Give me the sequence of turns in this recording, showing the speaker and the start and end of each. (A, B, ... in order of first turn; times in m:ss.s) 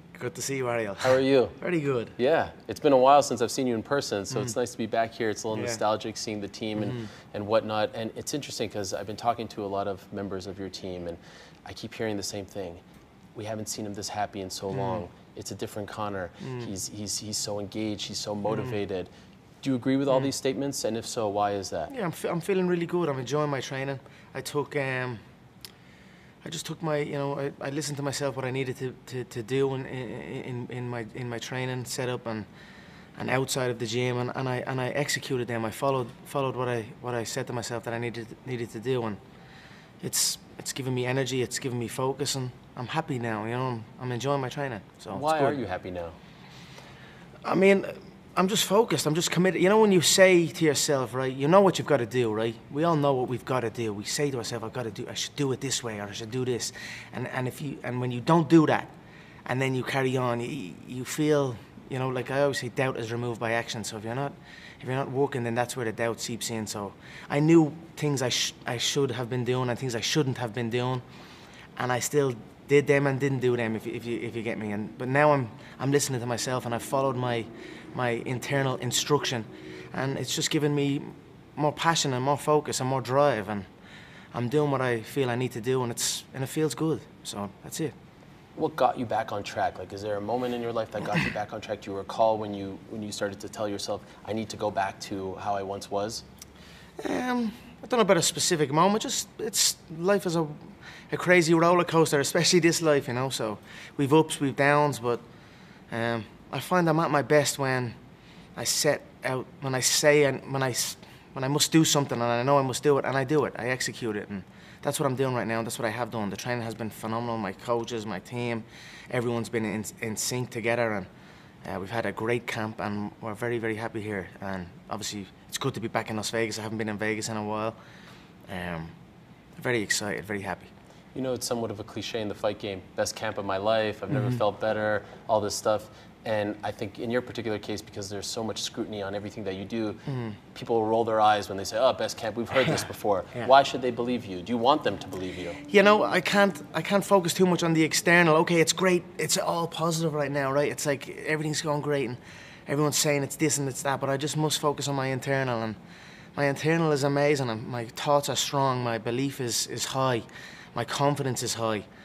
0:00.1-0:02.1 A
0:01.0-0:01.6 B
0:02.2-0:12.8 B
0:05.5-0:05.8 A
0:06.8-0:07.1 A
0:13.4-0:19.1 B
0:14.7-0:15.0 A
0:16.4-0:16.7 A
0:19.6-0:21.9 B
0:21.9-0:25.2 A
0:26.4-0:32.5 A
0:33.2-0:39.2 A
0:40.0-0:45.6 A
0:45.1-0:46.2 B
0:47.4-0:58.9 A
0:59.5-1:11.0 A
1:11.8-1:23.7 A
1:24.3-1:27.9 A
1:28.6-1:36.2 B
1:37.0-1:45.2 A
1:45.9-1:48.0 A
1:48.6-2:01.1 A
2:01.6-2:07.8 A
2:08.5-2:09.0 A
2:09.6-2:10.7 A
2:11.2-2:25.6 B
2:14.1-2:14.4 A
2:20.1-2:20.4 A
2:25.6-2:35.8 A
2:36.4-2:41.9 A